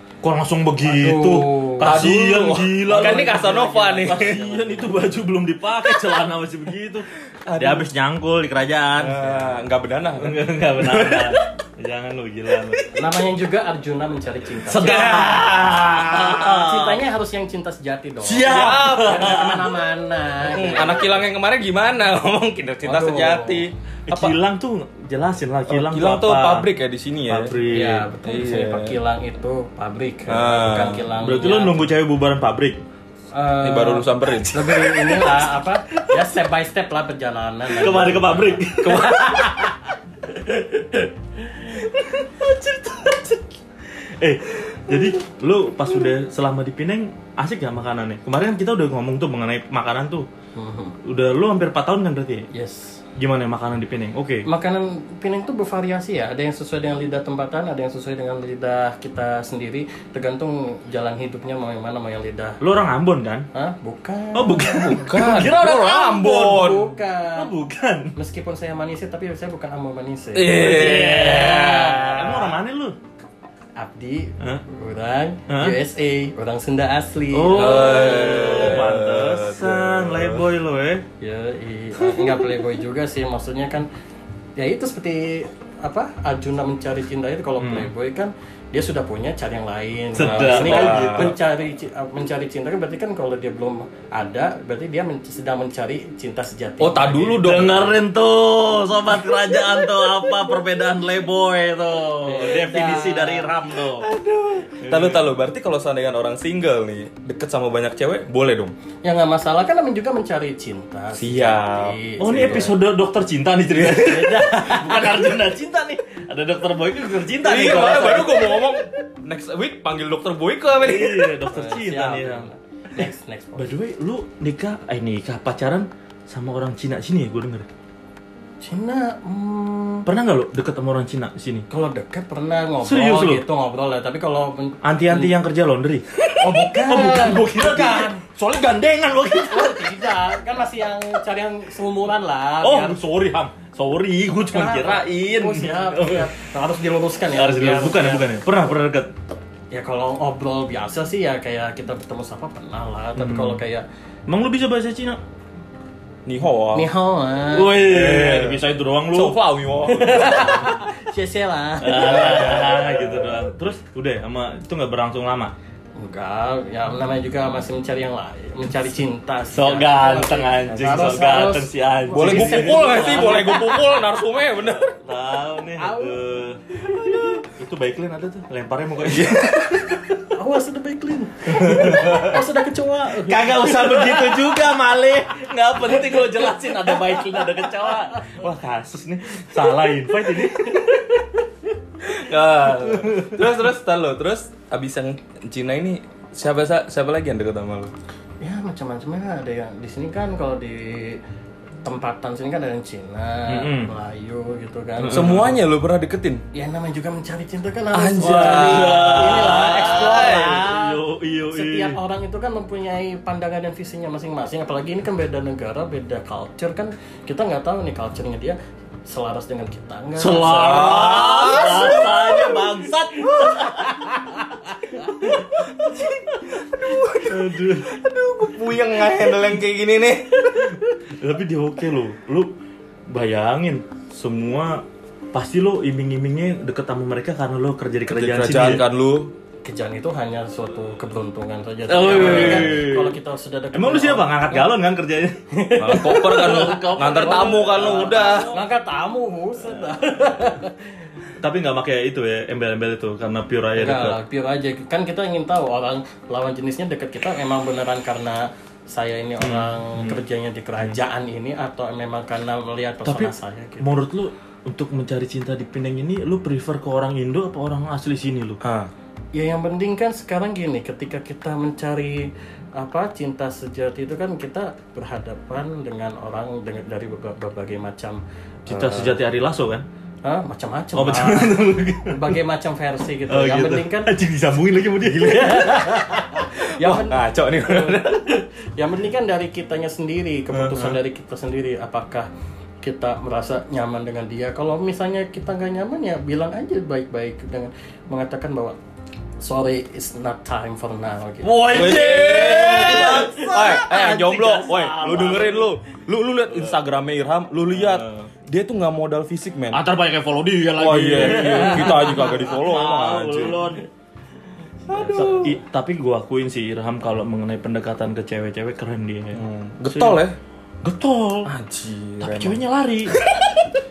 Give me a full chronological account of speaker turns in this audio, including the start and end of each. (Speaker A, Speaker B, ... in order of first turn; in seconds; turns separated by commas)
Speaker A: 0.2-9.6, Speaker B: 0.8-2.0, Speaker C: 1.8-4.4, Speaker B: 2.9-4.8, Speaker C: 7.5-7.9, Speaker C: 9.0-11.4, Speaker A: 10.2-12.9, Speaker B: 12.9-15.4, Speaker A: 14.7-17.0, Speaker C: 14.7-16.2, Speaker B: 16.1-21.1, Speaker A: 18.2-19.7, Speaker C: 18.4-19.7, Speaker C: 20.4-24.4, Speaker B: 22.8-23.6, Speaker A: 24.1-26.6, Speaker C: 25.7-27.6, Speaker A: 27.3-28.1, Speaker B: 27.7-31.8, Speaker C: 28.2-29.0, Speaker C: 30.3-31.0, Speaker A: 31.2-32.8, Speaker B: 33.3-39.6, Speaker C: 33.6-35.0, Speaker A: 35.0-35.5, Speaker A: 37.7-39.7, Speaker C: 38.8-39.5, Speaker A: 40.3-41.0, Speaker A: 41.8-43.4, Speaker A: 44.0-50.3, Speaker B: 50.5-51.0, Speaker A: 51.0-52.5, Speaker B: 52.5-53.0, Speaker A: 53.1-54.5, Speaker B: 54.4-62.6, Speaker A: 62.6-63.5, Speaker B: 63.5-67.5, Speaker A: 64.3-66.0, Speaker C: 64.8-66.9, Speaker A: 67.3-68.1, Speaker B: 68.2-72.2, Speaker C: 70.3-72.4, Speaker A: 70.5-73.0, Speaker B: 73.8-78.8, Speaker A: 75.5-75.8, Speaker A: 77.3-81.0, Speaker C: 77.5-80.5, Speaker B: 81.2-83.9, Speaker B: 84.5-97.5, Speaker A: 87.6-87.9, Speaker A: 90.1-91.3, Speaker C: 90.2-91.3, Speaker C: 96.8-98.0, Speaker A: 97.4-104.1, Speaker B: 102.2-103.5, Speaker C: 104.0-108.7, Speaker A: 104.8-105.2, Speaker B: 109.0-112.8, Speaker C: 111.2-112.7, Speaker A: 112.2-118.7, Speaker C: 113.7-115.0, Speaker C: 117.4-121.3, Speaker A: 120.8-127.7, Speaker B: 121.5-123.7, Speaker B: 128.6-130.1, Speaker A: 130.0-131.7, Speaker B: 131.7-135.3, Speaker A: 132.8-133.4, Speaker A: 134.8-140.0, Speaker B: 136.4-138.2, Speaker B: 139.4-143.0, Speaker A: 142.6-146.3, Speaker B: 144.4-148.3, Speaker A: 147.3-149.2, Speaker B: 149.7-153.8, Speaker A: 153.2-153.6, Speaker A: 154.3-155.2, Speaker C: 156.2-156.9, Speaker B: 156.7-157.9, Speaker A: 157.5-159.4, Speaker C: 157.7-160.8, Speaker B: 159.9-163.3, Speaker A: 161.8-165.5, Speaker C: 162.2-162.8, Speaker B: 166.0-173.6, Speaker A: 169.5-174.0, Speaker C: 170.8-171.1, Speaker C: 172.1-174.9, Speaker A: 174.9-180.0, Speaker B: 175.8-177.4, Speaker C: 179.1-179.5, Speaker B: 179.3-184.6, Speaker A: 181.5-182.4, Speaker A: 183.1-191.2, Speaker B: 185.8-188.3, Speaker B: 190.6-190.9, Speaker C: 192.0-197.9, Speaker A: 192.7-193.4, Speaker B: 198.4-201.2, Speaker B: 201.8-205.4, Speaker A: 203.5-203.9, Speaker A: 205.0-205.6, Speaker C: 205.1-206.4, Speaker B: 206.5-226.0, Speaker C: 207.9-210.6, Speaker A: 208.2-212.0, Speaker A: 220.2-224.0, Speaker C: 220.5-222.4, Speaker A: 225.1-225.6, Speaker C: 225.3-230.8, Speaker A: 226.9-227.9, Speaker A: 231.1-232.5, Speaker A: 233.1-238.8, Speaker C: 238.1-239.3, Speaker B: 239.6-244.8, Speaker A: 241.9-243.2, Speaker C: 242.1-242.8, Speaker A: 243.7-245.4, Speaker B: 245.5-250.9, Speaker C: 245.8-248.5, Speaker A: 245.9-248.6, Speaker A: 251.4-254.2, Speaker B: 253.8-263.9, Speaker A: 259.4-260.2, Speaker A: 263.0-268.6, Speaker C: 268.6-268.9, Speaker B: 269.3-279.2, Speaker A: 278.7-279.9, Speaker B: 280.2-284.1, Speaker A: 280.9-282.4, Speaker A: 283.3-286.4, Speaker B: 285.1-292.3, Speaker C: 286.6-288.4, Speaker A: 290.5-291.0, Speaker B: 292.8-298.8, Speaker B: 299.4-301.9, Speaker A: 301.4-305.7, Speaker C: 301.7-309.8, Speaker A: 307.7-308.3, Speaker A: 309.7-313.8, Speaker C: 310.8-313.7, Speaker B: 311.2-312.3, Speaker C: 314.9-315.6, Speaker B: 314.9-315.6, Speaker A: 315.2-320.2, Speaker C: 319.3-320.4, Speaker A: 320.8-321.5, Speaker C: 321.4-322.6, Speaker A: 322.2-323.2, Speaker C: 323.1-323.6